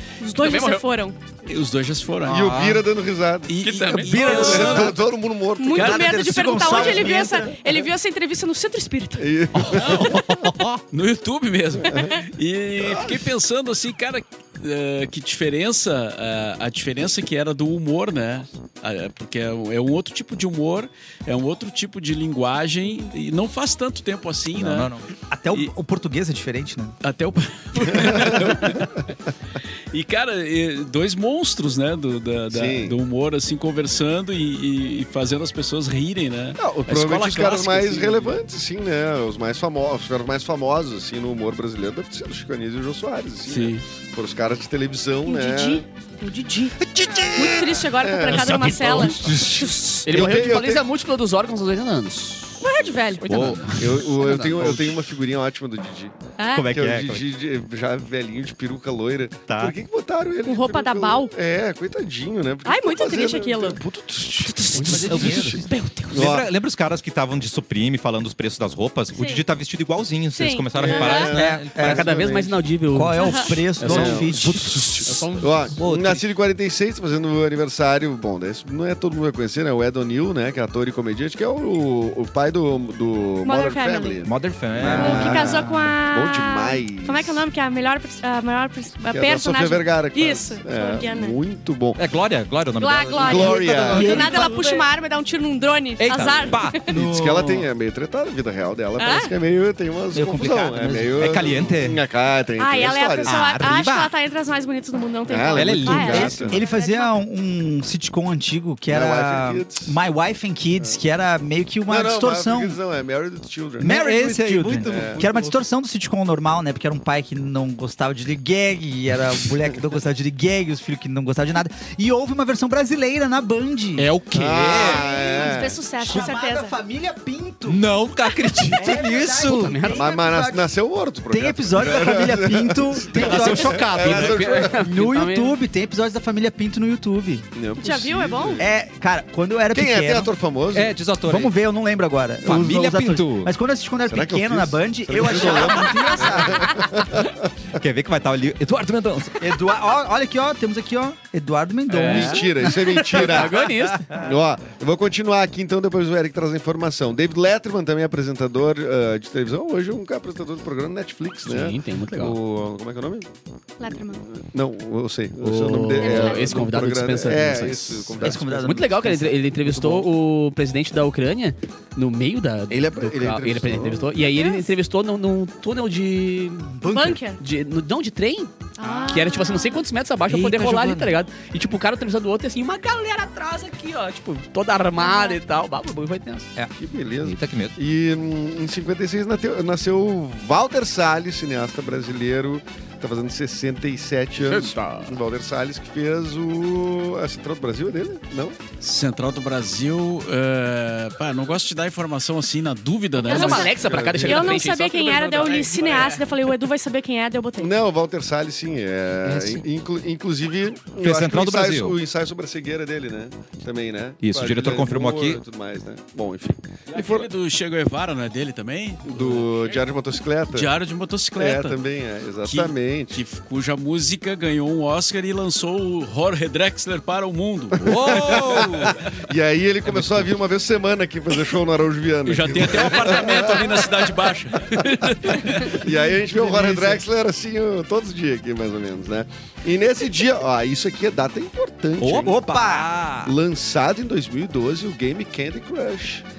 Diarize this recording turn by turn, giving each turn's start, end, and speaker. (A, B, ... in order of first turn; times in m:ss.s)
0:00.2-0:01.2 A
0:00.3-0:00.8 B
0:01.4-0:02.5 C
0:02.3-0:02.8 D
0:02.3-0:03.6 E
0:03.5-0:05.0 C
0:03.6-0:04.3 B
0:03.9-0:05.0 F
0:04.1-0:07.1 E
0:05.6-0:09.3 A
0:05.7-0:07.6 F
0:09.2-0:10.2 E
0:09.6-0:10.2 C
0:09.7-0:10.8 D
0:10.9-0:24.9 C
0:11.8-0:12.2 E
0:12.8-0:13.1 E
0:24.6-0:25.0 D
0:25.3-0:27.0 F
0:27.0-0:29.0 C
0:27.8-0:28.9 E
0:29.9-0:38.4 C
0:32.5-0:33.0 E
0:36.6-0:45.8 E
0:43.5-0:43.8 C
0:45.2-0:46.8 A
0:46.8-0:47.7 D
0:47.3-0:49.8 A
0:47.4-0:50.9 E
0:48.3-0:49.6 F
0:48.6-0:49.0 D
0:50.0-0:54.5 B
0:52.6-0:53.3 A
0:53.3-0:55.0 D
0:53.8-0:56.1 E
0:56.4-0:56.7 A
0:56.6-0:57.2 D
0:56.7-1:05.6 E
0:59.5-0:59.8 D
1:00.5-1:01.3 A
1:02.6-1:03.8 A
1:04.7-1:06.3 B
1:04.8-1:05.6 F
1:06.1-1:06.5 E
1:06.1-1:12.0 D
1:09.1-1:09.5 A
1:10.3-1:11.4 A
1:10.8-1:12.6 E
1:11.3-1:12.1 F
1:11.8-1:14.5 B
1:12.9-1:15.2 F
1:13.2-1:13.6 A
1:13.8-1:24.3 E
1:15.0-1:15.8 B
1:15.8-1:16.2 D
1:23.4-1:24.3 A
1:24.2-1:25.5 D
1:24.8-1:25.8 F
1:24.8-1:27.4 E
1:24.9-1:31.4 A
1:29.1-1:32.0 E
1:32.0-1:34.1 D
1:32.8-1:36.8 A
1:33.2-1:34.5 E
1:33.8-1:34.8 F
1:36.0-1:37.4 D
1:36.5-1:43.4 E
1:36.9-1:37.7 F
1:39.0-1:39.3 A
1:40.1-1:41.7 F
1:40.3-1:42.0 D
1:42.6-1:47.2 A
1:43.2-1:44.1 D
1:45.3-1:46.6 E
1:45.6-1:46.5 D
1:46.0-1:52.8 F
1:48.9-1:50.0 E
1:51.9-1:54.0 E
1:53.8-1:55.6 D
1:53.8-2:04.1 F
1:54.9-1:55.2 E
2:04.0-2:05.0 D
2:04.3-2:05.8 E
2:04.7-2:06.7 A
2:06.0-2:07.8 F
2:07.7-2:09.8 D
2:08.7-2:10.7 F
2:09.5-2:10.1 B
2:09.9-2:14.8 E
2:11.3-2:17.5 F
2:13.1-2:14.6 D
2:14.0-2:15.6 B
2:17.6-2:18.7 E
2:17.8-2:18.6 A
2:18.6-2:20.3 F
2:19.7-2:21.0 E
2:20.7-2:21.5 D
2:21.2-2:26.8 F
2:22.4-2:23.5 D
2:24.1-2:27.4 E
2:27.8-2:29.5 D
2:29.4-2:34.4 F
2:31.9-2:34.0 B
2:32.0-2:43.3 E
2:41.4-2:42.4 B
2:43.8-2:44.2 A
2:44.2-2:48.8 E
2:45.4-2:58.5 B
2:46.0-2:46.6 A
2:48.2-2:49.8 F
2:49.7-2:50.1 E
2:52.7-2:54.1 E
2:54.2-2:54.7 A
2:56.8-2:57.2 F
2:56.8-2:57.4 A
2:58.8-2:59.9 A
2:58.8-2:59.3 F
2:59.1-3:06.5 B
3:00.3-3:01.2 D
3:05.0-3:05.4 A
3:06.8-3:18.6 E
3:07.2-3:07.8 D
3:14.4-3:15.2 B
3:18.8-3:24.2 C
3:23.2-3:27.7 A
3:23.2-3:26.2 B
3:23.6-3:24.6 E
3:25.6-3:26.1 C
3:27.6-3:37.3 E
3:31.0-3:32.0 D
3:34.2-3:35.4 D
3:36.9-3:39.8 C
3:39.1-3:40.7 E
3:40.5-3:41.8 C
3:41.4-3:43.2 E
3:42.4-3:48.2 C
3:47.8-3:54.2 E
3:47.8-3:49.0 D
3:52.2-3:55.8 C
3:54.7-4:02.4 E
3:56.5-3:56.8 D
4:02.0-4:03.4 D
4:02.2-4:02.9 F
4:03.2-4:06.2 E